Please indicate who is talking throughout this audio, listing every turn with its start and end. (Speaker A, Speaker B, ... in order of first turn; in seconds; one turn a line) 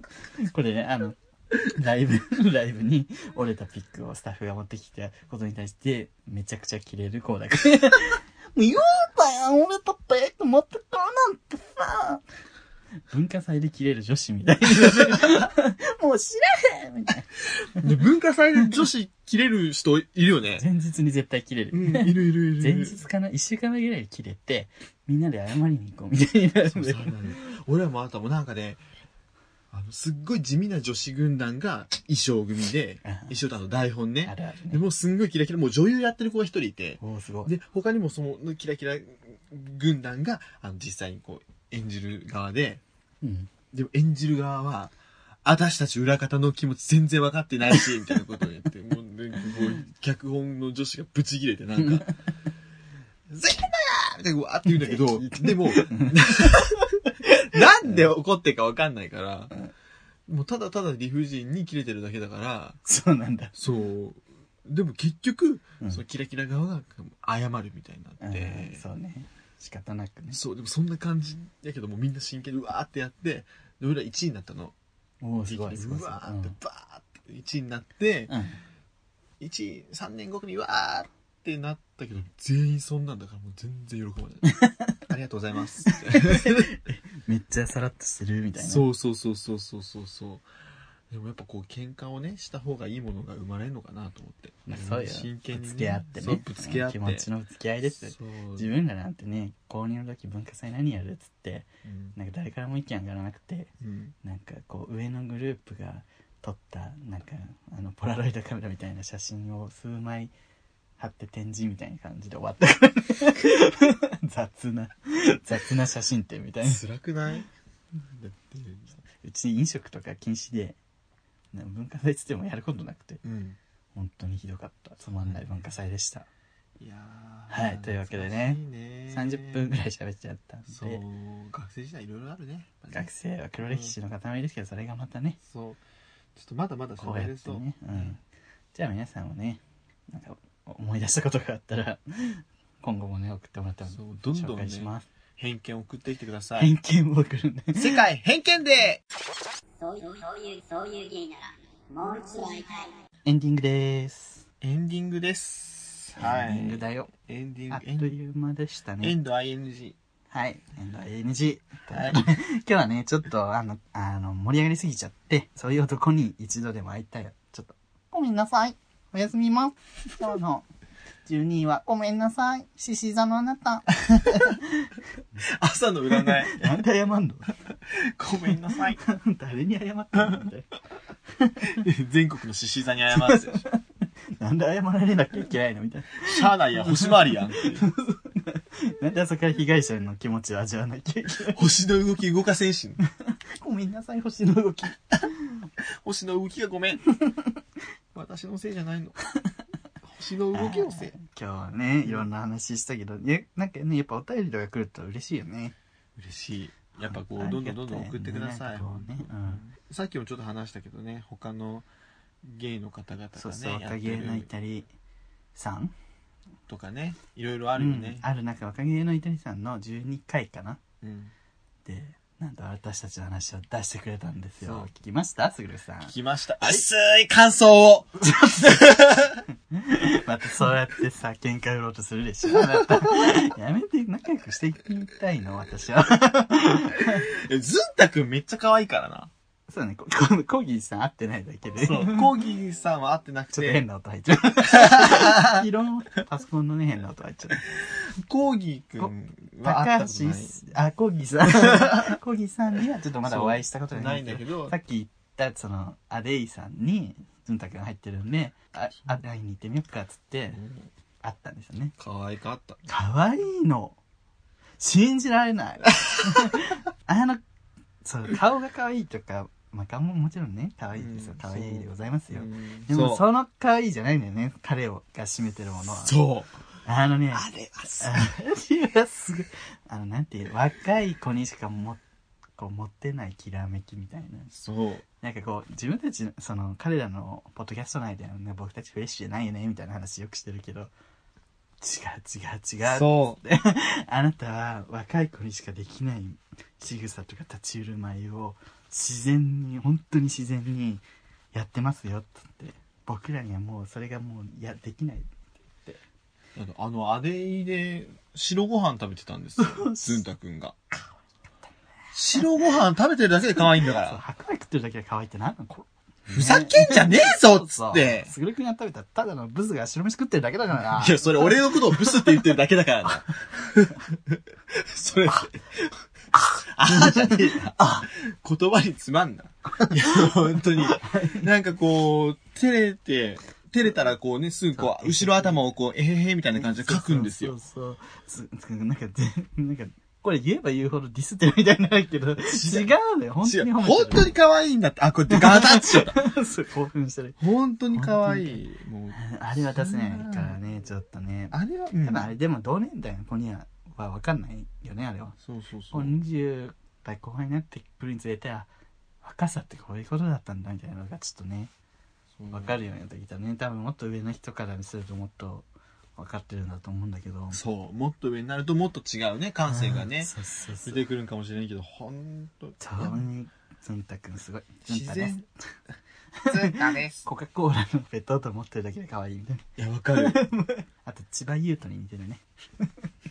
Speaker A: 0.4-12.2
Speaker A: 13.1-17.8
Speaker B: 14.9-15.1
Speaker B: 17.8-20.6
Speaker A: 20.6-27.1
Speaker B: 21.7-23.0
Speaker B: 26.7-28.8
Speaker B: 29.7-42.8
Speaker A: 33.0-33.4
Speaker A: 34.2-34.8
Speaker A: 37.0-37.5
Speaker A: 43.2-43.5
Speaker B: 43.7-52.1
Speaker B: 53.3-59.5
Speaker A: 54.7-56.5
Speaker A: 57.2-58.0
Speaker B: 60.3-62.8
Speaker A: 62.9-63.5
Speaker B: 63.5-68.8
Speaker A: 68.2-70.4
Speaker B: 70.3-74.7
Speaker A: 75.2-76.5
Speaker B: 75.4-78.3
Speaker A: 78.3-78.6
Speaker B: 79.4-86.7
Speaker A: 84.5-85.0
Speaker A: 85.9-88.9
Speaker B: 88.6-90.5
Speaker B: 91.1-97.3
Speaker A: 94.7-103.7
Speaker B: 97.9-98.7
Speaker B: 101.8-102.1
Speaker B: 103.8-104.1
Speaker A: 104.2-110.3
Speaker A: 111.0-116.8
Speaker B: 116.6-117.5
Speaker B: 118.0-119.0
Speaker A: 119.2-120.8
Speaker A: 121.5-123.2
Speaker B: 123.2-123.6
Speaker A: 123.9-126.3
Speaker B: 125.2-125.5
Speaker B: 126.8-129.7
Speaker A: 127.5-128.6
Speaker A: 129.1-131.0
Speaker B: 130.7-133.9
Speaker A: 132.9-135.4
Speaker B: 135.4-135.8
Speaker B: 136.3-138.1
Speaker A: 137.0-138.2
Speaker A: 138.7-145.1
Speaker B: 143.9-146.7
Speaker A: 146.6-148.0
Speaker B: 147.7-149.0
Speaker C: 149.8-153.0
Speaker A: 153.2-154.4
Speaker B: 154.6-158.1
Speaker A: 156.2-157.1
Speaker A: 157.7-159.2
Speaker B: 159.0-160.0
Speaker A: 160.3-170.7
Speaker B: 161.9-162.2
Speaker A: 171.2-175.4
Speaker B: 175.4-176.8
Speaker A: 176.3-177.5
Speaker B: 177.9-179.0
Speaker A: 179.0-180.7
Speaker B: 180.2-180.5
Speaker A: 181.4-181.8
Speaker B: 181.7-183.6
Speaker A: 183.1-183.8
Speaker A: 184.4-191.6
Speaker B: 186.2-187.9
Speaker B: 191.5-193.0
Speaker A: 193.2-195.7
Speaker B: 196.0-197.0
Speaker B: 198.1-199.2
Speaker B: 200.0-201.1
Speaker A: 200.5-205.7
Speaker B: 206.2-211.9
Speaker A: 207.0-209.6
Speaker B: 212.4-214.5
Speaker A: 213.3-214.9
Speaker A: 215.5-215.9
Speaker B: 216.7-218.2
Speaker A: 217.8-220.8
Speaker B: 221.0-221.3
Speaker A: 221.8-226.8
Speaker B: 224.6-224.9
Speaker B: 226.1-229.4
Speaker A: 228.3-228.9
Speaker A: 229.7-237.3
Speaker B: 237.0-239.3
Speaker A: 239.7-242.3
Speaker B: 241.8-243.8
Speaker A: 243.5-247.6
Speaker B: 244.6-245.7
Speaker B: 247.7-250.7
Speaker A: 249.0-260.6
Speaker B: 251.4-252.2
Speaker B: 253.2-254.7
Speaker B: 260.5-260.9
Speaker A: 261.2-261.9
Speaker B: 262.0-262.8
Speaker A: 262.9-264.0
Speaker A: 264.8-267.4
Speaker A: 268.0-276.1
Speaker B: 270.9-273.2
Speaker B: 275.9-276.6
Speaker A: 276.8-282.0
Speaker B: 277.3-278.3
Speaker A: 282.6-284.5
Speaker B: 284.5-285.0
Speaker A: 285.2-290.9
Speaker A: 291.8-305.3
Speaker B: 292.8-293.4
Speaker B: 306.5-310.8
Speaker A: 309.6-310.2
Speaker B: 312.1-314.2
Speaker A: 313.9-322.1
Speaker B: 316.3-318.3
Speaker B: 320.9-326.0
Speaker B: 326.7-337.5
Speaker A: 326.9-328.1
Speaker A: 330.8-331.5
Speaker A: 334.8-335.6
Speaker A: 336.5-344.4
Speaker B: 342.4-342.9
Speaker B: 343.4-346.2
Speaker A: 345.3-347.4
Speaker B: 347.4-350.6
Speaker A: 347.9-348.6
Speaker A: 349.1-355.4
Speaker B: 351.5-352.3
Speaker B: 355.4-356.2
Speaker A: 355.9-358.7
Speaker A: 359.2-361.7
Speaker B: 362.4-362.8
Speaker A: 362.5-367.6
Speaker B: 367.5-373.2
Speaker A: 369.7-371.0
Speaker A: 372.8-375.4
Speaker B: 374.9-375.4
Speaker A: 376.4-382.9
Speaker B: 376.5-377.2
Speaker B: 379.8-380.4